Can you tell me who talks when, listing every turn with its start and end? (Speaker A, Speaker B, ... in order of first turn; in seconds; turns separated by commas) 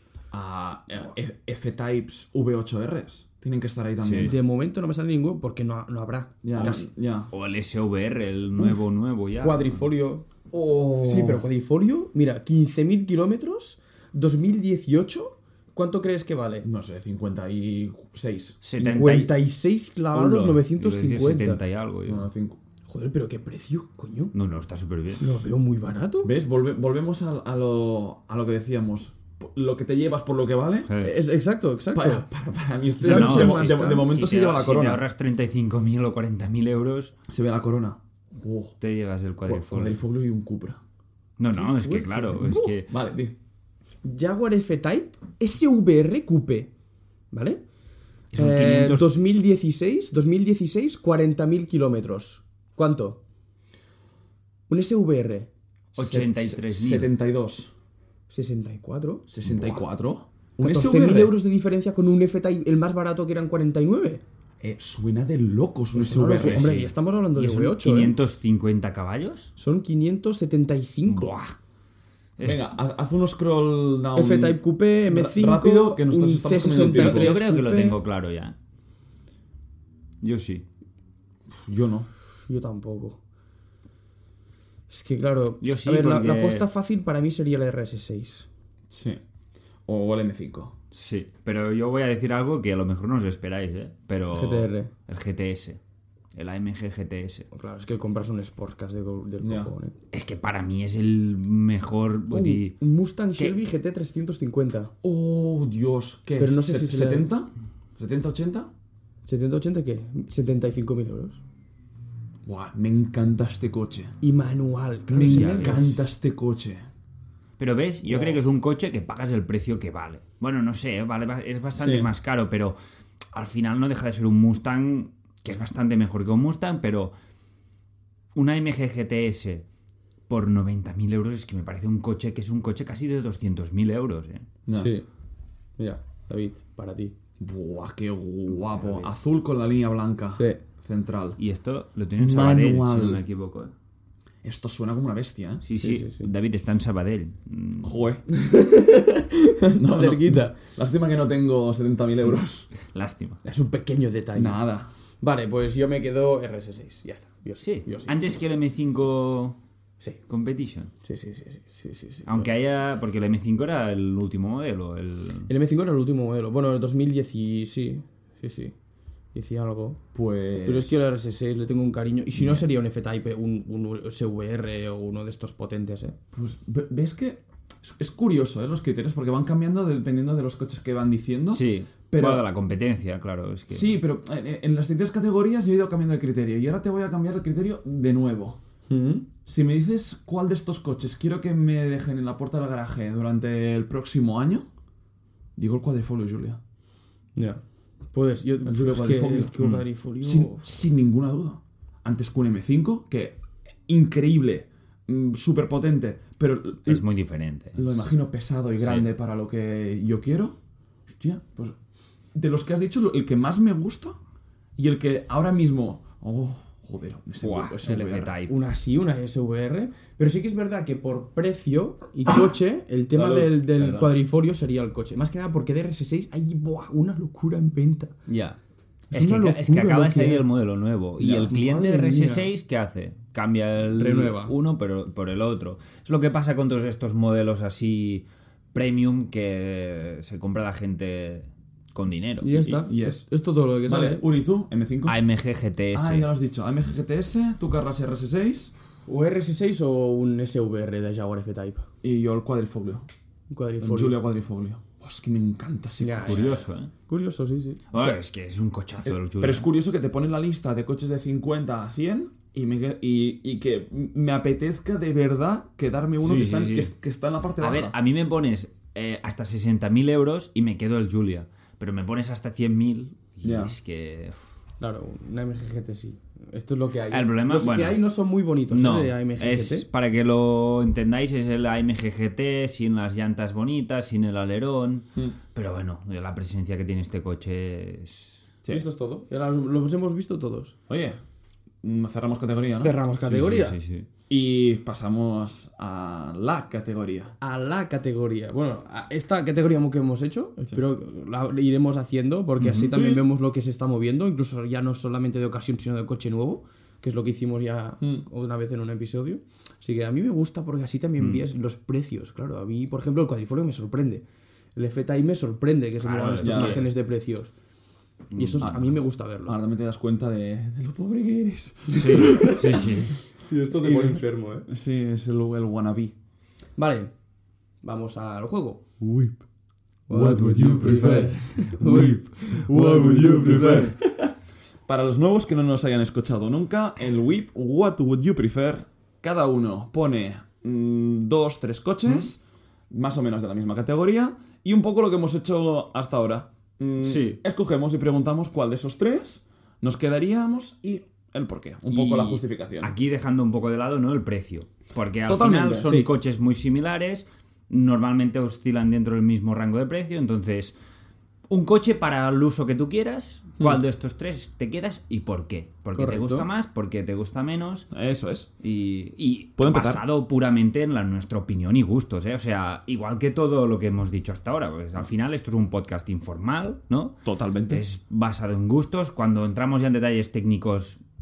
Speaker A: 0.3-4.3, Speaker B: 4.0-4.3, Speaker C: 4.2-6.9, Speaker A: 6.4-7.3, Speaker B: 7.3-9.8, Speaker C: 9.4-10.2, Speaker A: 10.5-11.4, Speaker C: 11.0-16.7, Speaker A: 16.6-18.6, Speaker B: 18.6-19.4, Speaker C: 18.8-21.6, Speaker B: 20.1-22.3, Speaker A: 22.0-22.6, Speaker C: 22.9-24.3, Speaker B: 24.3-25.2, Speaker C: 25.2-26.3, Speaker A: 26.2-30.9, Speaker B: 30.9-31.1, Speaker C: 31.0-32.2, Speaker A: 31.9-35.0, Speaker C: 33.0-34.1, Speaker B: 33.0-37.1, Speaker A: 37.3-38.8, Speaker B: 38.8-40.0, Speaker A: 39.4-40.8, Speaker B: 41.4-42.9, Speaker C: 41.5-42.8, Speaker A: 42.9-43.4, Speaker C: 44.0-46.7, Speaker C: 47.3-47.6, Speaker B: 48.3-49.1, Speaker C: 48.3-53.2, Speaker C: 54.7-55.5, Speaker B: 55.9-57.1, Speaker A: 56.0-57.7, Speaker C: 58.3-59.7, Speaker A: 59.3-61.3, Speaker C: 60.6-64.2, Speaker A: 64.6-66.7, Speaker C: 65.9-68.2, Speaker B: 66.4-69.5, Speaker C: 69.6-71.3, Speaker B: 71.0-71.6, Speaker B: 72.4-72.6, Speaker A: 72.4-77.3, Speaker C: 74.1-78.0, Speaker B: 76.9-78.5, Speaker B: 80.2-80.6, Speaker A: 81.5-82.1, Speaker C: 82.5-83.2, Speaker C: 84.9-88.5, Speaker B: 85.6-86.7, Speaker A: 88.9-89.2, Speaker A: 89.8-90.7, Speaker B: 90.9-95.8, Speaker C: 94.3-94.9, Speaker B: 96.3-97.5, Speaker C: 97.5-99.9, Speaker A: 99.4-99.7, Speaker B: 100.1-102.7, Speaker C: 102.3-104.9, Speaker A: 105.0-108.7, Speaker C: 106.4-107.3, Speaker C: 109.2-111.4, Speaker A: 112.4-114.1, Speaker C: 114.2-116.0, Speaker A: 115.1-116.8, Speaker B: 115.2-115.9, Speaker B: 117.6-122.8, Speaker C: 118.1-118.4, Speaker A: 121.7-122.1, Speaker B: 123.3-127.1, Speaker B: 128.3-129.6, Speaker B: 130.3-134.4, Speaker A: 134.7-134.9, Speaker C: 134.7-135.0, Speaker C: 135.8-137.1, Speaker A: 137.4-141.4, Speaker B: 138.6-139.1, Speaker C: 140.3-140.6, Speaker B: 141.4-143.7, Speaker A: 142.2-143.2, Speaker A: 144.4-145.6, Speaker B: 145.6-148.0, Speaker C: 145.8-146.3, Speaker A: 147.8-148.2, Speaker C: 148.3-150.6, Speaker A: 149.7-152.7, Speaker B: 152.8-153.4, Speaker C: 153.4-154.6, Speaker A: 154.3-154.9, Speaker C: 155.2-158.4, Speaker B: 157.6-159.6, Speaker B: 160.3-160.9, Speaker C: 161.0-162.5, Speaker B: 162.3-165.5, Speaker C: 165.5-168.7, Speaker C: 169.3-170.0, Speaker A: 170.1-171.0, Speaker C: 170.6-176.2, Speaker B: 172.4-172.6, Speaker A: 176.3-182.4, Speaker B: 181.5-184.0, Speaker A: 183.7-188.6, Speaker C: 188.9-189.2, Speaker A: 189.4-194.7, Speaker A: 195.6-196.6, Speaker C: 197.3-197.6, Speaker C: 198.1-200.7, Speaker A: 198.6-199.6, Speaker B: 199.6-199.8, Speaker A: 200.2-207.0, Speaker B: 206.8-207.9, Speaker A: 207.7-210.6, Speaker B: 208.8-209.1, Speaker A: 211.1-211.8, Speaker A: 212.3-214.2, Speaker A: 214.8-218.3, Speaker B: 217.4-218.5, Speaker C: 218.5-228.1, Speaker A: 223.1-224.1, Speaker B: 228.3-228.6, Speaker C: 229.1-230.4, Speaker B: 229.1-242.7, Speaker A: 231.2-231.5, Speaker C: 231.3-232.5, Speaker C: 233.9-234.5, Speaker C: 242.4-244.2, Speaker A: 242.7-243.2, Speaker A: 243.8-245.2, Speaker B: 245.1-246.3, Speaker A: 245.9-248.7, Speaker C: 249.1-251.9, Speaker A: 252.0-253.0, Speaker C: 253.5-254.2, Speaker A: 253.8-256.6, Speaker C: 256.0-256.5, Speaker B: 256.2-256.9, Speaker C: 257.1-257.8, Speaker B: 257.9-259.7, Speaker A: 259.0-267.9, Speaker B: 266.2-266.9, Speaker B: 267.6-274.4, Speaker A: 273.4-273.7, Speaker C: 274.8-279.9, Speaker B: 277.1-278.0, Speaker B: 278.7-288.4, Speaker C: 288.7-290.7, Speaker A: 290.9-291.2, Speaker A: 291.8-293.0, Speaker C: 292.8-293.8, Speaker B: 293.2-294.1, Speaker A: 294.3-297.3, Speaker C: 297.4-314.2, Speaker B: 302.6-302.9, Speaker A: 302.9-303.2, Speaker B: 311.2-311.4, Speaker C: 314.8-317.5, Speaker B: 316.0-316.9, Speaker A: 316.4-316.9, Speaker B: 318.3-318.7, Speaker C: 318.3-319.6, Speaker A: 318.6-318.9, Speaker A: 319.4-322.8, Speaker C: 321.9-322.9, Speaker B: 321.9-323.1, Speaker C: 323.4-324.7, Speaker A: 323.8-326.1, Speaker C: 326.8-327.1, Speaker C: 327.8-329.4, Speaker C: 330.1-334.3, Speaker A: 330.1-334.1, Speaker B: 330.9-331.2, Speaker B: 331.8-332.2, Speaker A: 334.9-352.9, Speaker B: 347.0-347.4, Speaker B: 351.9-360.7, Speaker A: 355.3-356.1, Speaker B: 361.5-367.9, Speaker C: 365.9-366.5, Speaker A: 367.9-368.5, Speaker B: 368.6-377.2, Speaker A: 369.6-370.0, Speaker A: 377.2-377.8, Speaker B: 377.7-381.0